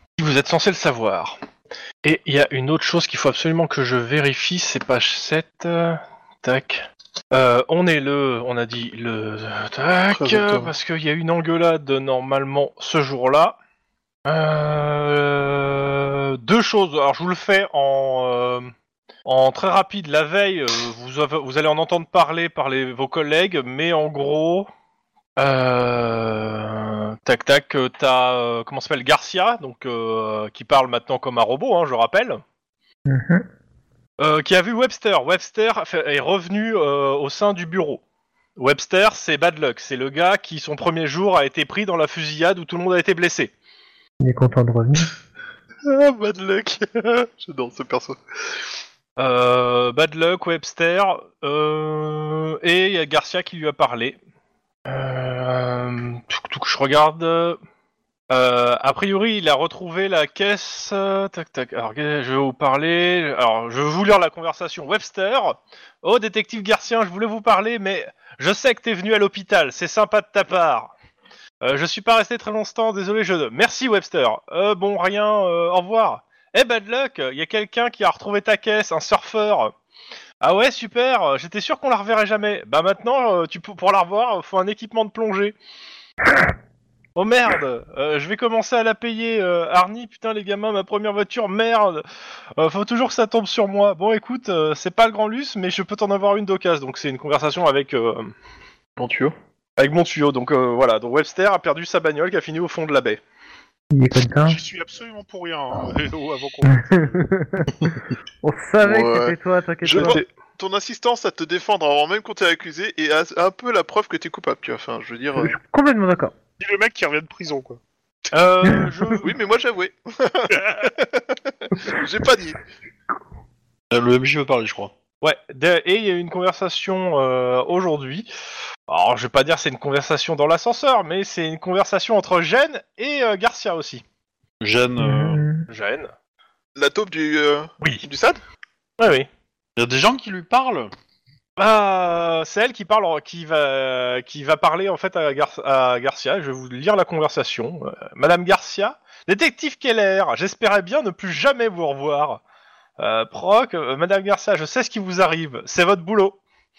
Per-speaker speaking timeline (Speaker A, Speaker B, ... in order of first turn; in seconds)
Speaker A: 0.2-1.4, 2.0-13.6, 14.3-18.7, 19.2-24.7, 25.4-32.4, 34.2-38.0, 38.6-43.5, 49.2-54.2, 54.9-57.6, 58.3-70.9, 71.6-79.7, 80.4-85.6, 87.2-92.0, 92.6-98.3, 99.8-103.2, 109.9-110.3, 118.3-119.3, 125.2-128.3, 128.9-134.0, 135.7-136.1, 139.0-139.3, 141.6-152.4, 153.0-156.4
Speaker B: 10.1-10.7, 45.9-48.2, 99.0-99.3, 108.8-115.6, 119.2-122.6, 136.8-138.4
Speaker C: 33.1-33.5, 44.2-45.1, 103.9-104.6, 106.8-110.2, 115.4-116.3, 135.0-135.7
Speaker D: 104.5-107.3, 116.6-117.8
Speaker E: 123.9-124.9, 134.6-135.4, 139.8-140.9